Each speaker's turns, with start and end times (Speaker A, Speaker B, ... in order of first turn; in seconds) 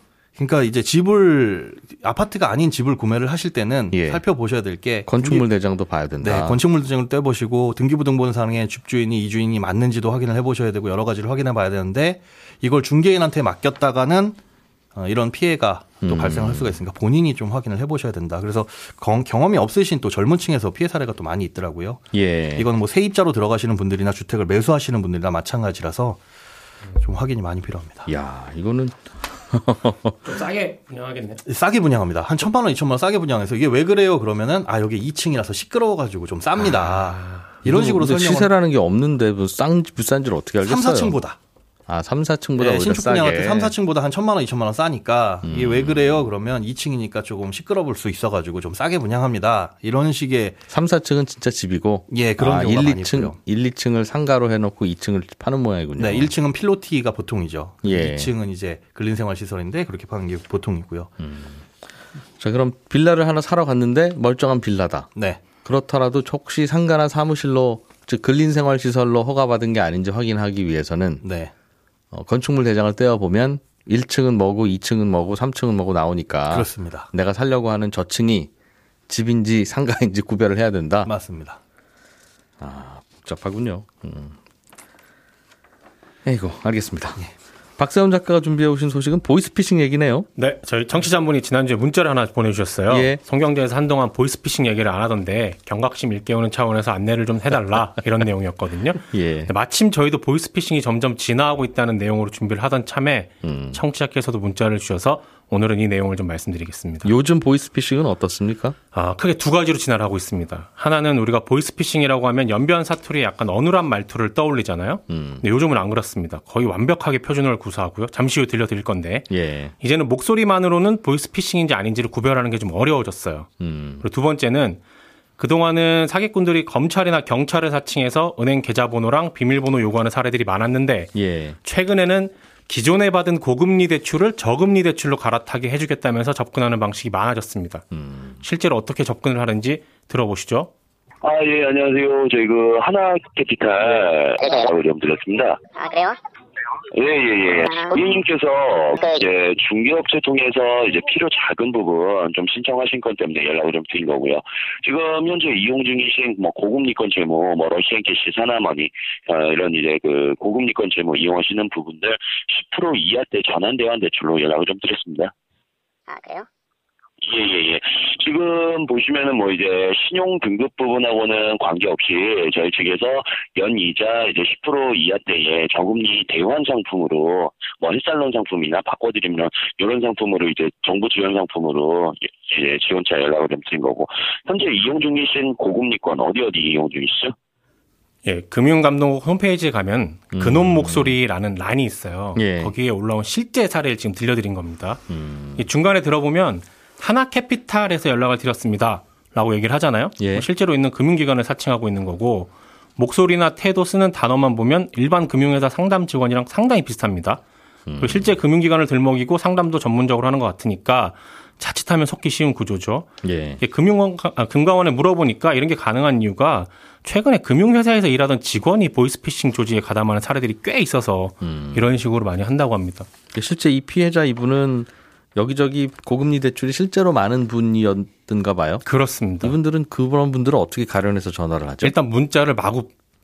Speaker A: 0.4-5.5, 6.2-14.4, 14.9-26.2, 27.0-28.1, 31.5-38.5, 40.6-41.4, 42.6-50.6, 52.1-53.4, 56.0-61.1, 65.2-65.4, 71.2-71.5, 76.5-77.1, 81.0-81.6
Speaker B: 3.9-4.2, 5.0-6.6, 16.0-16.8, 22.1-22.7, 28.1-30.2, 37.6-41.2, 41.9-43.7, 45.4-46.3, 50.7-56.3, 57.8-58.3, 61.2-61.6, 62.4-65.1, 65.6-71.2, 72.1-78.5, 79.1-81.1, 82.6-84.4, 86.2-87.2, 87.8-90.3, 92.9-93.2, 99.1-99.5, 103.4-103.8, 107.0-108.8, 115.1-115.4, 119.3-119.7, 123.6-124.0, 131.1-131.6, 137.9-138.4, 190.3-191.2, 192.3-192.7, 195.1-195.7, 200.2-200.5, 207.9-208.3, 213.2-213.6, 221.4-221.8, 223.3-228.8, 229.4-231.9
Speaker C: 30.2-31.4, 36.7-37.5, 90.4-107.1, 108.9-119.3, 119.8-123.5, 124.0-124.8, 125.4-137.8, 138.4-140.7, 188.2-195.0, 195.6-207.4, 208.0-213.1, 213.6-223.1, 228.8-229.6, 231.8-232.9
Speaker D: 141.2-145.6, 146.9-165.3, 167.2-187.3
Speaker E: 144.4-144.7, 145.7-146.2, 147.6-148.2, 149.0-149.2, 166.1-166.5